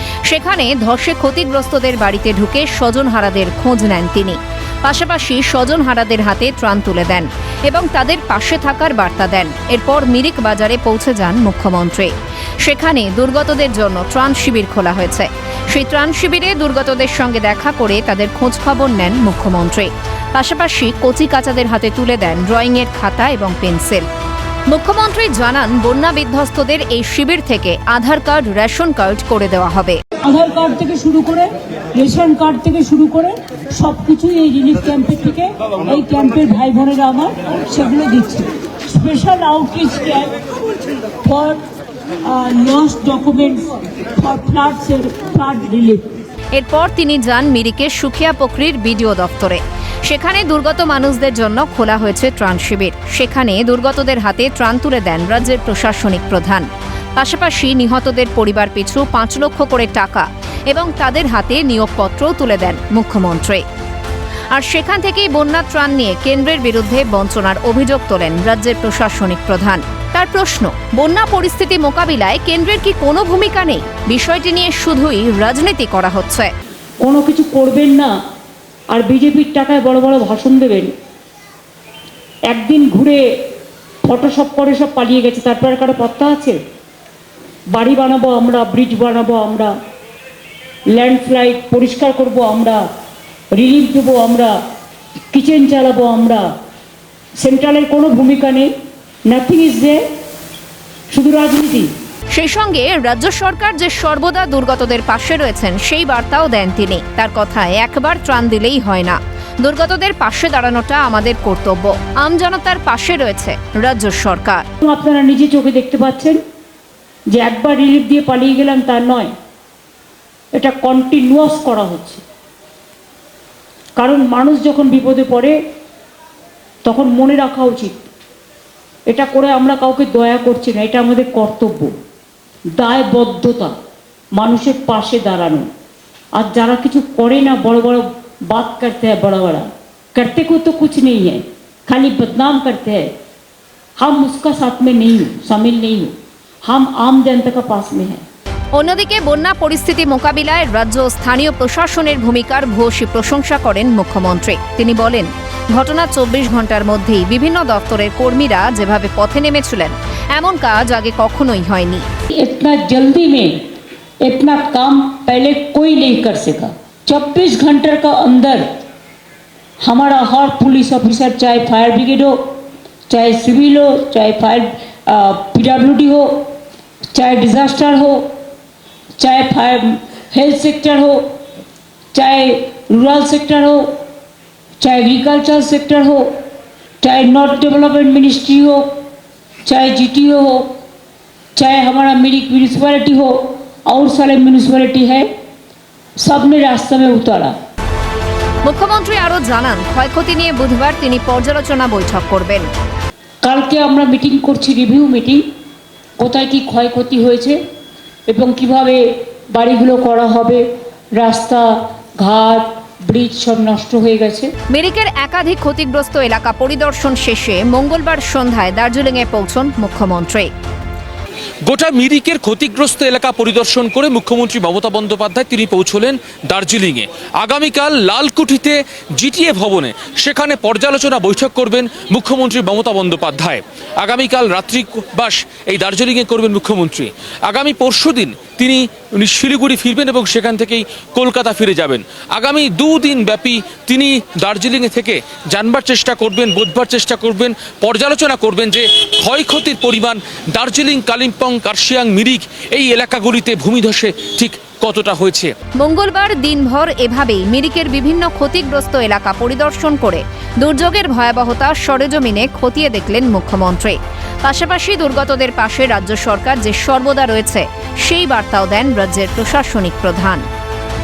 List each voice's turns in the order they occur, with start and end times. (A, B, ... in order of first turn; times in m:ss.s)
0:00.2-0:24.0 A
0:24.7-0:30.0 A
0:30.2-0:40.4 B
0:41.2-0:41.6 B
0:42.2-0:46.1 B
0:46.5-0:56.6 A
0:57.2-1:03.6 A
1:04.5-1:16.5 A
1:17.0-1:18.1 B
1:18.9-1:20.9 B
1:22.5-1:23.2 B
1:24.0-1:26.6 B
1:27.7-1:29.7 B
1:30.9-1:32.8 B
1:33.5-1:34.6 B
1:35.3-1:36.5 B
1:37.4-1:38.7 B
1:39.3-1:40.0 B
1:41.1-1:41.9 B
1:42.3-1:54.6 A
1:54.8-1:56.4 B
1:57.3-1:59.3 B
2:00.5-2:02.2 B
2:04.0-2:05.6 B
2:06.8-2:08.1 B
2:09.1-2:11.9 B
2:12.8-2:13.7 B
2:14.3-2:15.7 B
2:16.4-2:23.1 B
2:24.0-2:26.1 B
2:26.6-2:28.2 B
2:28.7-2:42.0 A
2:42.3-2:43.5 B
2:44.2-2:48.6 B
2:49.8-2:52.5 B
2:53.1-2:56.5 B
2:57.1-2:58.3 B
2:59.2-3:01.2 B
3:02.1-3:04.0 B
3:04.8-3:06.4 B
3:07.0-3:08.9 B
3:09.6-3:10.7 B
3:11.6-3:15.3 B
3:16.2-3:17.5 B
3:18.6-3:22.7 A
3:23.4-3:25.4 B
3:26.2-3:27.6 B
3:28.3-3:30.6 B
3:31.2-3:34.5 B
3:34.7-3:40.5 A
3:41.7-4:15.5 C
4:15.8-4:30.4 A